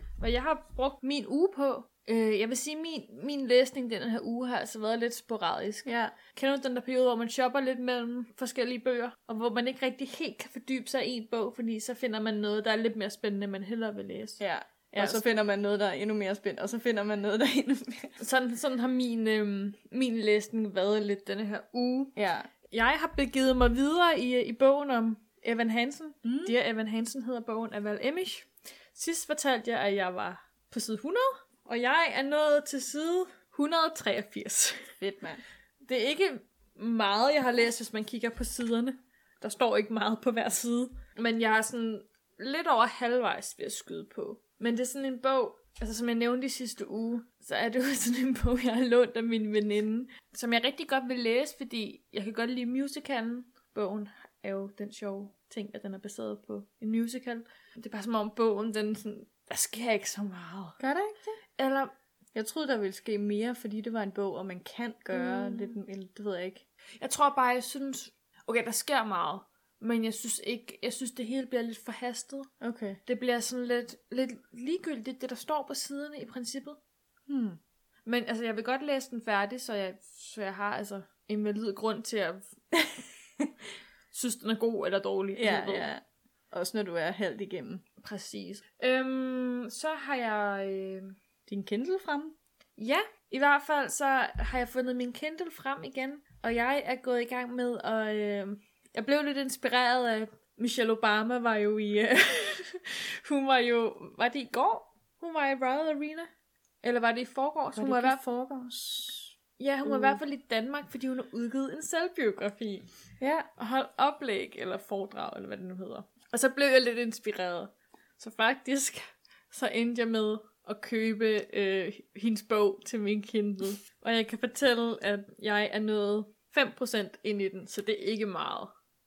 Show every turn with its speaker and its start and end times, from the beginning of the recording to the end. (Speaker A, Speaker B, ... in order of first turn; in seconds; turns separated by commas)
Speaker A: 0.2-15.2, Speaker B: 5.8-6.2, Speaker B: 14.4-18.2, Speaker A: 18.2-22.1, Speaker B: 22.1-22.5, Speaker A: 22.7-34.9, Speaker B: 26.2-26.6, Speaker B: 35.0-35.4, Speaker A: 35.8-60.8, Speaker B: 60.8-61.4, Speaker A: 61.6-61.9, Speaker B: 62.3-66.6, Speaker A: 65.1-65.8, Speaker A: 67.0-72.5, Speaker B: 72.6-73.0, Speaker A: 73.0-76.8, Speaker B: 77.3-77.6, Speaker A: 78.0-82.5, Speaker A: 84.1-85.9, Speaker B: 85.3-87.8, Speaker A: 88.0-91.2, Speaker B: 91.5-92.3, Speaker A: 92.8-106.3, Speaker A: 106.8-108.2, Speaker B: 107.7-109.3, Speaker A: 109.6-112.8, Speaker B: 109.8-110.2, Speaker B: 113.2-113.5, Speaker A: 113.6-128.7